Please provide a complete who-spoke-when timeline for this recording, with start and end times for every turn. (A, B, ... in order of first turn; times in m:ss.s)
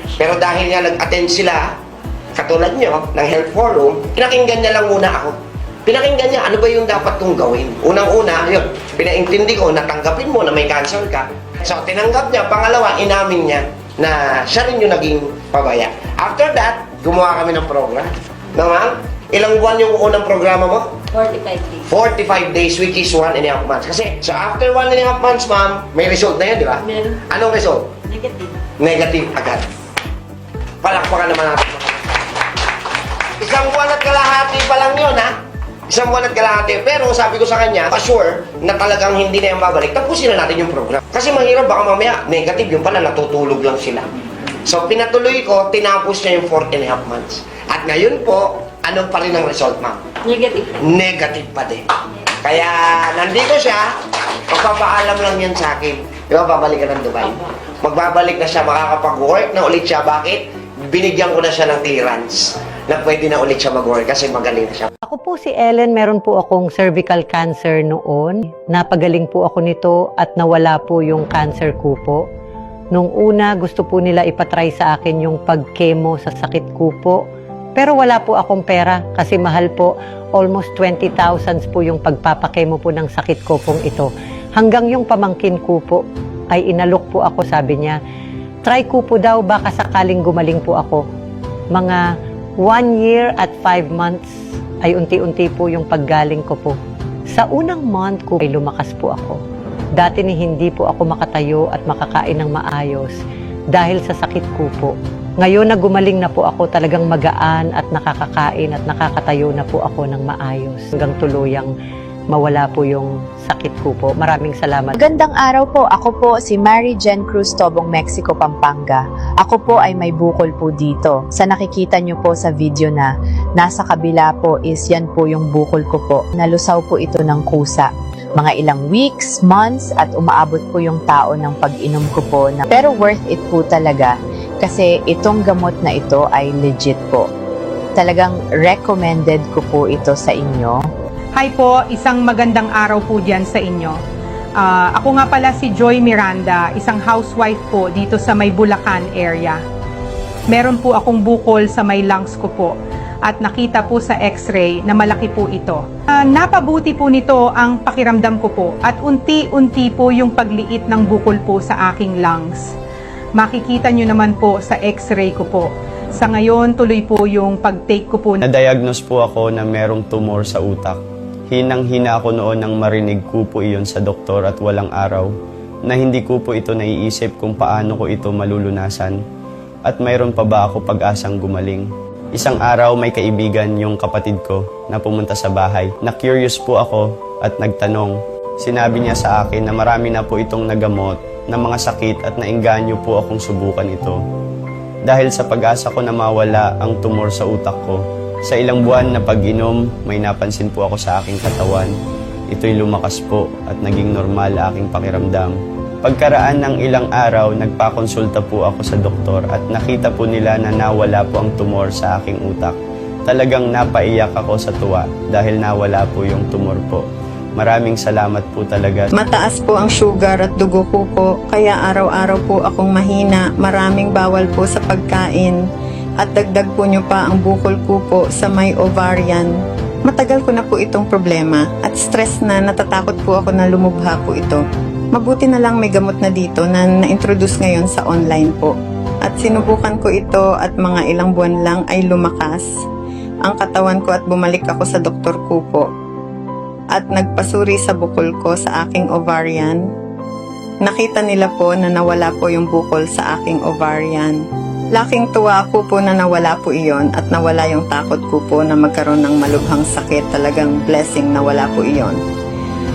0:00.2-0:01.7 A
0:02.3-0:21.0 A
0:21.1-0:21.8 B
0:21.9-0:27.9 A
0:26.8-0:27.2 B
0:28.1-0:28.6 B
0:28.8-0:29.6 A
0:30.8-0:32.1 A
0:33.4-0:35.3 A
0:35.9-0:44.1 A
0:44.6-0:50.0 A
0:50.2-0:50.7 B
0:50.8-0:51.8 A
0:52.4-0:53.9 A
0:54.5-1:04.9 A
1:05.0-1:12.2 C
1:12.9-1:17.2 C
1:17.8-1:28.0 C
1:28.6-1:31.0 C
1:31.7-1:32.0 C
1:32.6-1:34.3 C
1:34.8-1:36.8 C
1:37.3-1:39.4 C
1:40.0-1:43.2 C
1:43.7-1:51.7 C
1:52.3-1:54.9 C
1:55.0-2:17.3 D
2:18.0-2:20.8 D
2:21.4-2:24.0 E
2:24.6-2:29.6 E
2:30.5-2:32.7 E
2:33.2-2:42.6 E
2:43.4-2:48.4 E
2:48.4-2:55.3 F
2:55.8-2:59.2 F
2:59.8-3:14.2 F
3:15.0-3:21.9 F
3:22.5-3:37.0 F
3:37.6-3:39.1 F
3:39.4-3:45.5 G
3:46.2-3:49.5 G
3:50.1-3:54.6 G
3:55.1-3:58.7 G
3:59.2-4:02.6 G
4:03.5-4:05.8 G
4:07.0-4:09.8 G
4:10.8-4:14.3 G
4:15.0-4:22.2 G